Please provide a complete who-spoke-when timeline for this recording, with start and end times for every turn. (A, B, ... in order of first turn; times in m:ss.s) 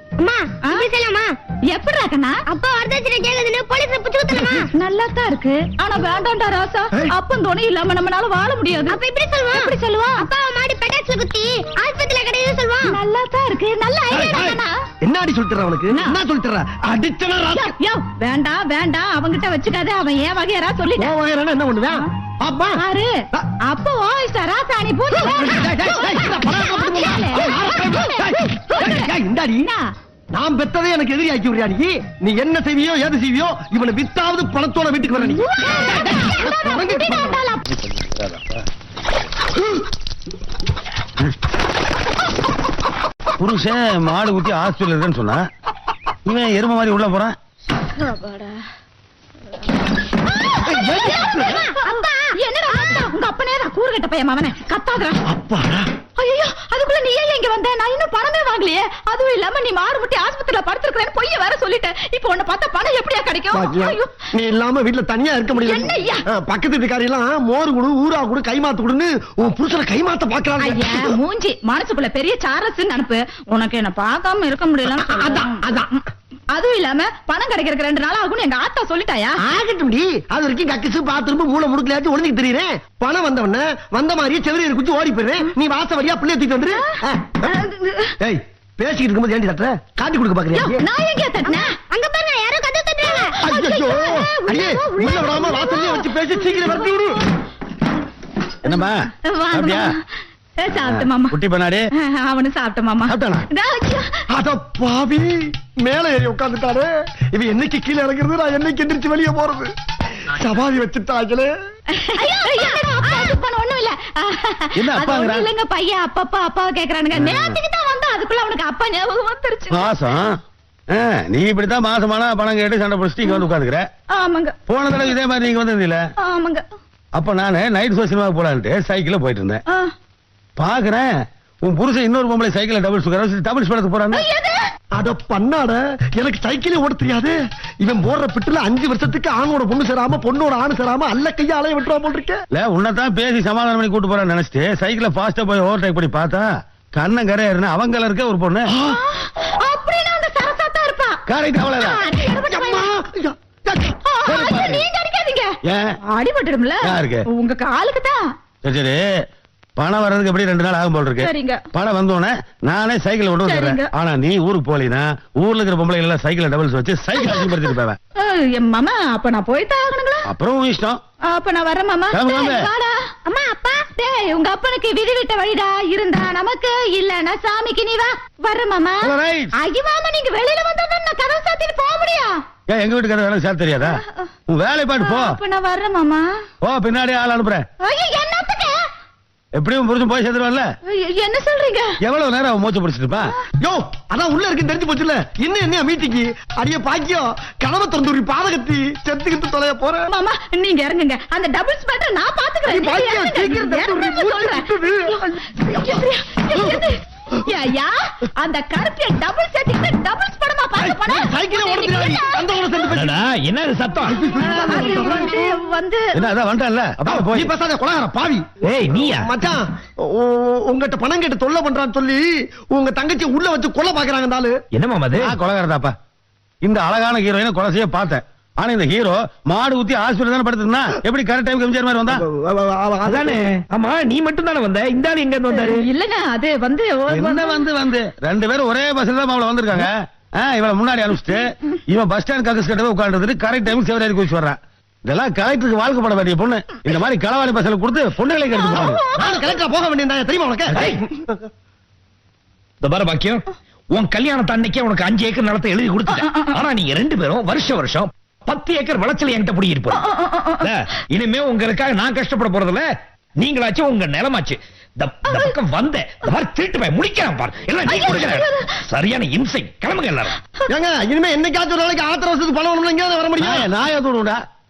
0:00.2-0:01.3 A
0:01.7-0:02.4 B
0:02.5-0:04.7 A
0:04.7-0:09.0 B
0:08.9-0:13.0 A
0:09.5-0:10.3 B
0:12.8-0:14.7 B
0:14.1-0:17.7 C
0:15.9-0:16.2 B
0:17.6-0:21.1 B
0:21.0-0:22.8 C
0:22.8-0:23.1 B
0:23.7-0:28.2 B
0:25.1-0:29.7 C
0:28.7-0:29.1 B
0:30.3-0:37.4 C
0:35.3-0:37.6 B
0:37.7-0:38.6 D
0:43.4-0:45.4 D
0:46.3-0:47.4 D
0:47.8-0:48.6 B
0:50.4-0:55.2 B
0:50.6-0:51.6 C
0:51.2-0:52.3 A
0:55.3-0:55.9 C
0:56.2-1:04.3 B
1:03.5-1:11.2 C
1:05.6-1:06.3 B
1:10.6-1:15.6 B
1:14.9-1:16.0 C
1:16.5-1:19.4 B
1:19.4-1:27.6 C
1:27.0-1:28.2 B
1:28.2-1:30.9 C
1:30.6-1:31.7 B
1:31.4-1:33.4 A
1:33.4-1:37.2 C
1:33.5-1:36.0 B
1:35.5-1:35.9 A
1:36.6-1:37.1 B
1:38.6-1:38.9 D
1:39.3-1:40.0 B
1:39.5-1:39.9 D
1:40.6-1:41.4 B
1:40.7-1:41.8 D
1:42.0-1:44.1 B
1:43.1-1:43.4 C
1:44.3-1:49.7 C
1:50.3-1:51.5 C
1:52.0-1:59.9 B
1:54.8-1:55.5 D
1:57.2-1:57.6 D
1:59.7-2:00.4 D
2:00.9-2:03.8 D
2:04.1-2:04.6 B
2:04.7-2:06.0 D
2:06.2-2:06.6 B
2:07.2-2:09.6 D
2:10.6-2:11.1 D
2:11.6-2:14.3 D
2:14.1-2:14.6 B
2:15.0-2:22.4 C
2:22.5-2:28.7 D
2:29.1-2:32.9 B
2:31.3-2:32.0 D
2:32.5-2:34.0 C
2:34.0-2:35.6 B
2:34.3-2:34.8 D
2:36.1-2:38.3 B
2:36.9-2:37.2 D
2:38.6-2:39.0 D
2:39.8-2:48.0 D
2:41.2-2:41.6 B
2:43.4-2:43.9 B
2:47.2-2:47.5 B
2:48.2-2:50.3 B
2:50.3-2:51.0 D
2:51.3-2:53.0 B
2:52.1-2:52.7 D
2:53.3-2:53.8 A
2:54.0-3:02.4 B
2:59.0-2:59.5 D
3:02.7-3:05.4 D
3:05.0-3:06.2 B
3:06.6-3:07.6 D
3:07.8-3:08.8 B
3:09.6-3:10.6 D
3:10.9-3:12.0 B
3:12.0-3:13.3 D
3:13.6-3:20.1 C
3:20.1-3:32.5 B
3:22.7-3:26.0 C
3:26.5-3:26.8 C
3:30.8-3:33.2 C
3:32.9-3:34.2 E
3:34.1-3:35.6 C
3:34.4-3:36.2 B
3:36.2-3:37.5 D
3:37.0-3:38.4 C
3:38.6-3:39.3 E
3:39.1-3:44.6 C
3:44.7-3:45.3 E
3:45.2-3:45.9 D
3:46.6-3:52.2 D
3:52.1-3:53.4 C
3:53.1-3:55.9 E
3:55.5-3:57.7 B
3:57.1-4:09.0 D
4:08.7-4:11.4 C
4:10.7-4:11.0 E
4:12.8-4:30.4 E
4:16.2-4:16.5 B
4:19.9-4:20.7 B
4:27.9-4:28.7 B
4:30.7-4:33.7 C
4:33.4-4:34.4 D